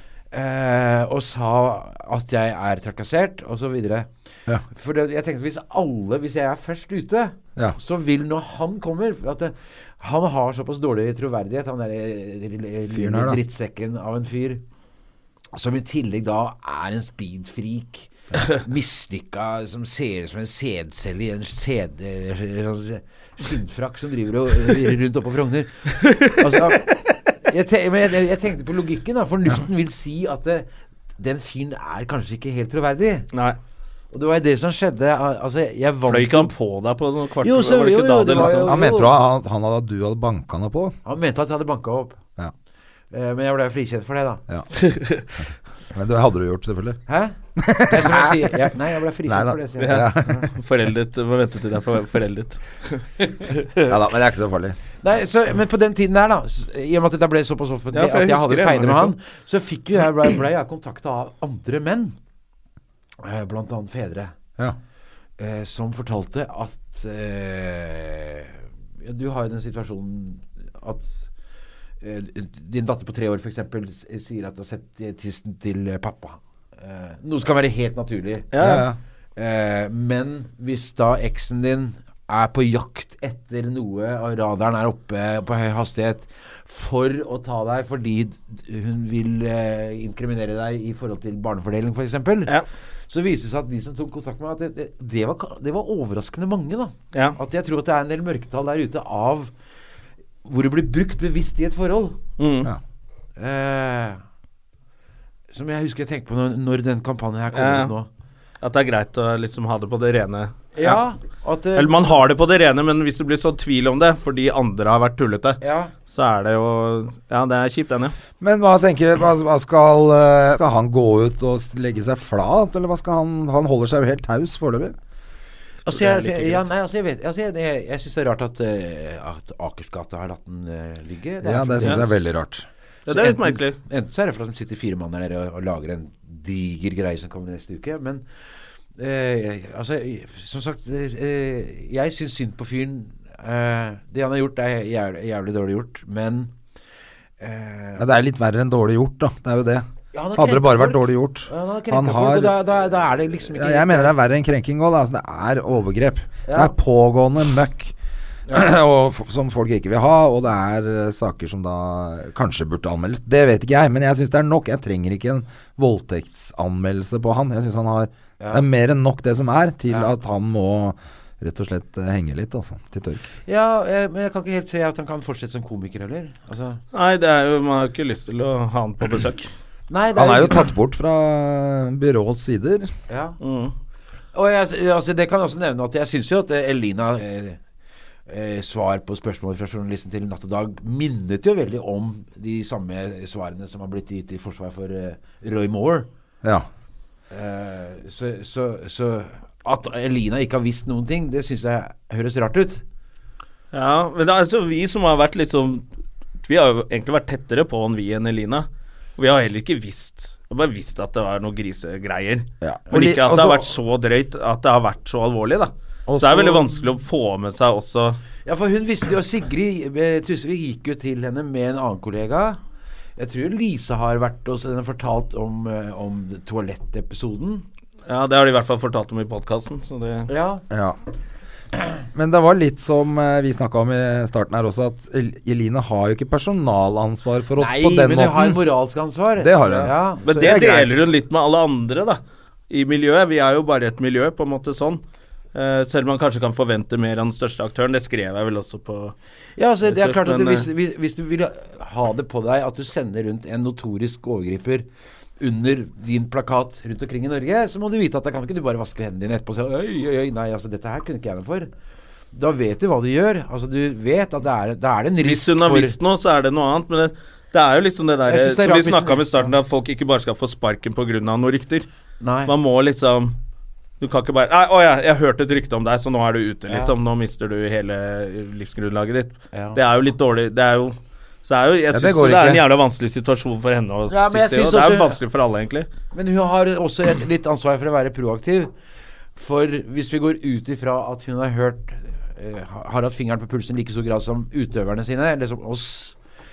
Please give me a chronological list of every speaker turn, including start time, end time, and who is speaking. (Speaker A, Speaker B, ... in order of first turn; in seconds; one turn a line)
Speaker A: 0.3-4.1
Speaker A: 4.7-14.6
Speaker B: 12.9-13.4
Speaker A: 15.5-33.3
Speaker C: 26.0-26.8
Speaker C: 33.3-33.6
Speaker A: 34.1-36.5
Speaker C: 36.1-38.8
Speaker A: 37.4-39.1
Speaker B: 38.5-41.0
Speaker A: 41.0-42.2
Speaker A: 43.1-44.4
Speaker C: 44.9-45.2
Speaker B: 45.9-47.0
Speaker A: 47.1-50.3
Speaker B: 47.6-50.5
Speaker C: 49.8-54.0
Speaker B: 53.8-54.8
Speaker A: 55.0-62.1
Speaker C: 57.9-59.1
Speaker A: 63.2-64.3
Speaker A: 65.4-71.3
Speaker A: 72.0-78.5
Speaker C: 78.5-78.9
Speaker B: 78.6-79.0
Speaker A: 79.4-92.5
Speaker A: 93.1-99.5
Speaker A: 100.5-102.2
Speaker C: 102.4-102.7
Speaker A: 103.4-104.2
Speaker A: 105.5-108.1
Speaker C: 107.5-107.9
Speaker C: 108.6-111.0
Speaker A: 110.8-112.2
Speaker C: 111.8-118.2
Speaker A: 115.6-115.9
Speaker B: 118.4-125.0
Speaker A: 125.9-132.2
Speaker C: 125.9-126.6
Speaker B: 131.4-132.7
Speaker C: 133.1-133.8
Speaker A: 133.1-138.2
Speaker A: 139.0-146.5
Speaker A: 147.4-148.1
Speaker B: 148.0-152.6
Speaker A: 150.1-154.2
Speaker B: 153.4-157.9
Speaker A: 156.5-156.7
Speaker B: 158.5-173.2
Speaker A: 168.4-168.7
Speaker A: 169.9-170.2
Speaker A: 173.5-176.8
Speaker C: 176.9-179.5
Speaker A: 179.9-180.7
Speaker B: 180.2-182.9
Speaker A: 183.1-183.4
Speaker C: 183.4-183.7
Speaker A: 184.3-187.6
Speaker A: 188.3-196.1
Speaker A: 197.3-202.8
Speaker C: 203.7-205.9
Speaker C: 206.4-218.2
Speaker B: 212.6-213.7
Speaker B: 216.1-216.8
Speaker A: 218.5-222.6
Speaker A: 223.2-227.7
Speaker C: 228.1-230.3
Speaker A: 230.3-230.6
Speaker B: 230.7-231.0
Speaker B: 232.1-238.6
Speaker A: 237.6-240.5
Speaker B: 239.4-241.1
Speaker C: 240.2-245.0
Speaker C: 245.5-249.1
Speaker A: 249.6-254.9
Speaker C: 249.8-250.7
Speaker A: 255.4-261.7
Speaker A: 262.3-266.0
Speaker C: 265.2-271.9
Speaker A: 268.3-269.5
Speaker A: 272.2-272.5
Speaker C: 272.5-273.4
Speaker C: 274.0-285.9
Speaker A: 276.7-276.9
Speaker A: 279.5-279.8
Speaker B: 281.9-282.6
Speaker A: 284.1-285.2
Speaker A: 286.1-288.7
Speaker A: 289.4-296.2